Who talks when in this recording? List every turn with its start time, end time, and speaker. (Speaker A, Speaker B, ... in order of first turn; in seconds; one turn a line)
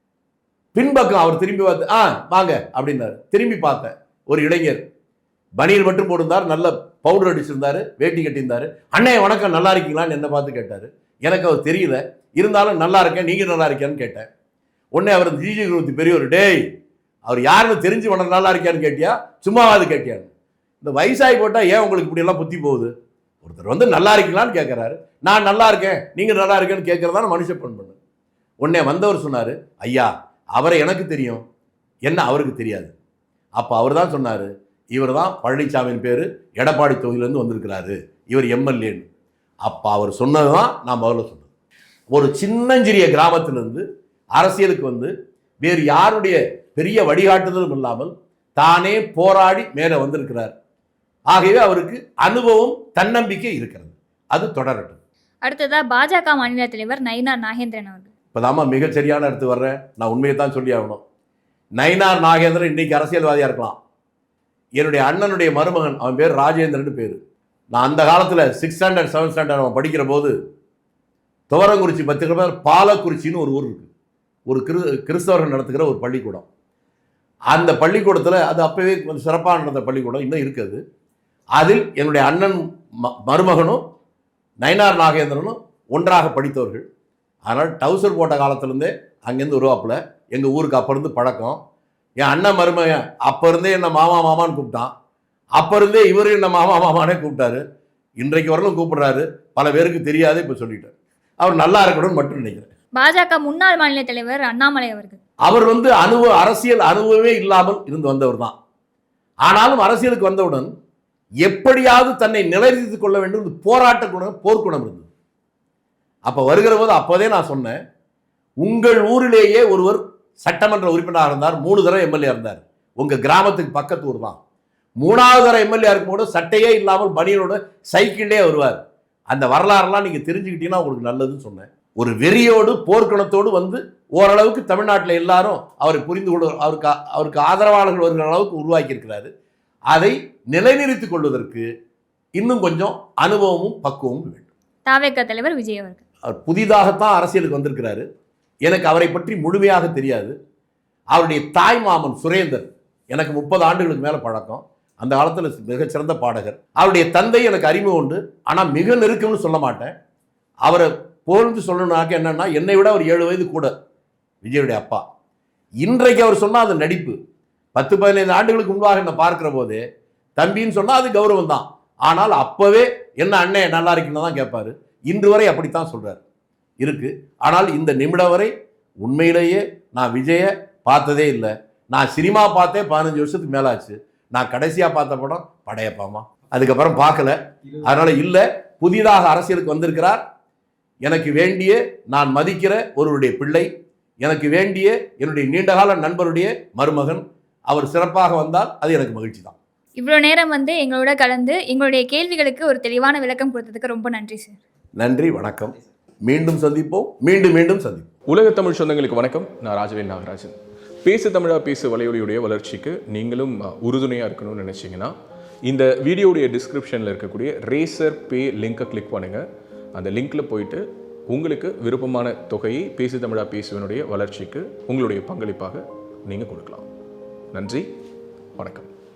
Speaker A: 0.7-4.8
Speaker A: 5.6-14.3
Speaker A: 14.9-16.6
Speaker A: 17.2-20.3
Speaker A: 20.8-27.9
Speaker A: 28.6-31.4
Speaker A: 32.0-32.9
Speaker A: 33.5-39.1
Speaker A: 39.6-41.5
Speaker A: 42.1-43.8
Speaker A: 44.3-50.5
Speaker A: 51.3-55.0
Speaker B: 55.4-58.1
Speaker A: 58.3-61.0
Speaker A: 61.8-63.8
Speaker A: 64.8-67.2
Speaker A: 67.7-70.3
Speaker A: 71.5-73.9
Speaker A: 74.5-76.5
Speaker A: 77.5-80.8
Speaker A: 81.5-83.8
Speaker A: 84.6-86.8
Speaker A: 87.5-91.6
Speaker A: 92.2-94.9
Speaker A: 95.6-97.6
Speaker A: 98.2-102.7
Speaker B: 103.0-105.2
Speaker A: 105.4-108.5
Speaker A: 109.4-110.7
Speaker A: 111.4-115.1
Speaker A: 116.2-117.8
Speaker A: 118.6-124.4
Speaker A: 125.0-139.3
Speaker A: 139.9-141.7
Speaker A: 142.4-144.5
Speaker B: 144.8-146.0
Speaker A: 146.2-148.0
Speaker A: 148.6-150.3
Speaker A: 151.1-159.9
Speaker A: 160.6-163.7
Speaker A: 164.4-165.0
Speaker A: 165.8-167.2
Speaker A: 167.7-169.8
Speaker A: 170.4-176.2
Speaker A: 176.8-190.2
Speaker A: 191.0-193.7
Speaker A: 194.2-199.6
Speaker B: 200.0-204.6
Speaker A: 205.0-205.7
Speaker A: 206.2-208.1
Speaker C: 208.3-215.1
Speaker C: 215.7-219.4
Speaker C: 219.9-226.9
Speaker C: 227.5-227.9
Speaker C: 228.6-228.9